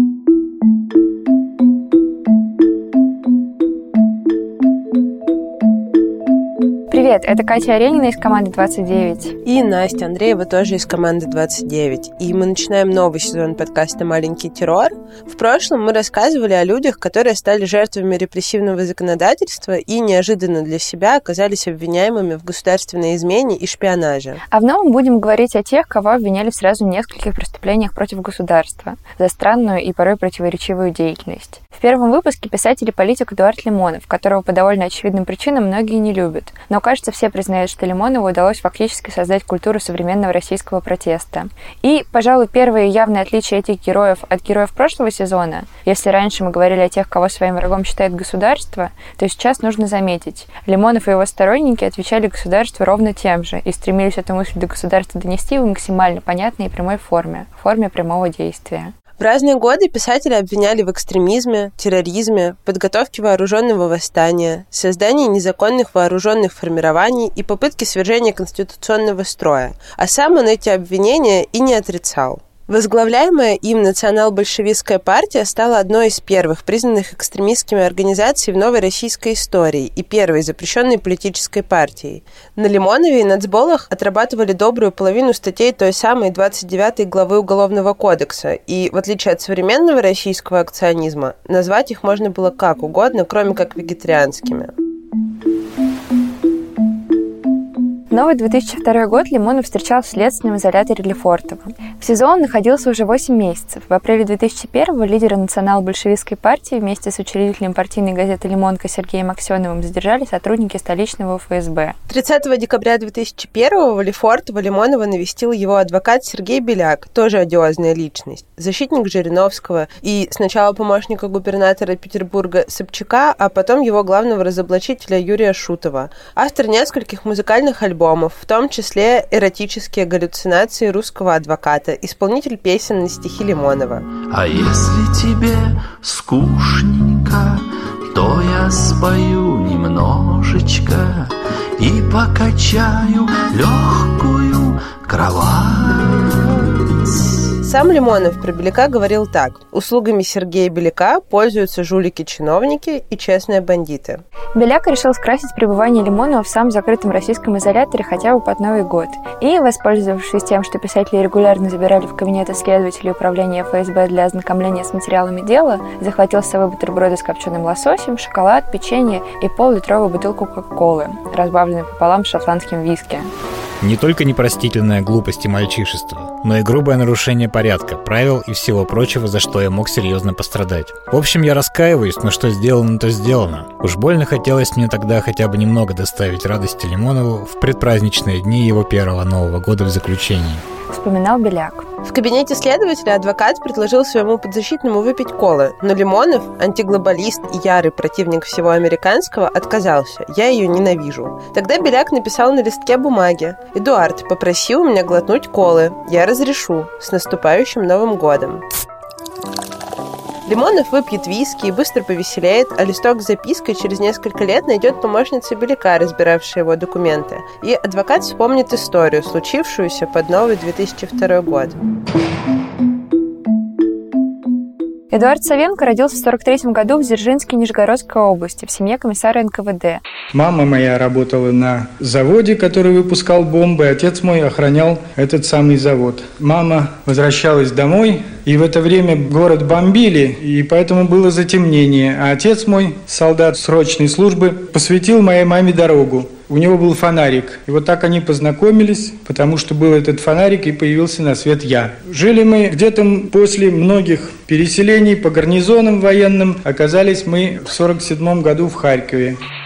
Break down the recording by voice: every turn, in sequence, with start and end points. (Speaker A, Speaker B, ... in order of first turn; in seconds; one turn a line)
Speaker A: 6.9-9.4
Speaker B: 9.4-24.4
Speaker A: 24.5-58.9
Speaker B: 59.2-94.7
Speaker A: 98.1-112.0
Speaker B: 112.1-134.1
Speaker C: 134.2-146.7
Speaker B: 147.6-154.2
Speaker A: 154.5-173.3
Speaker D: 173.8-190.6
Speaker A: 190.9-191.8
Speaker B: 192.0-208.6
Speaker B: 210.4-221.8
Speaker A: 225.1-230.0
Speaker E: 230.3-259.4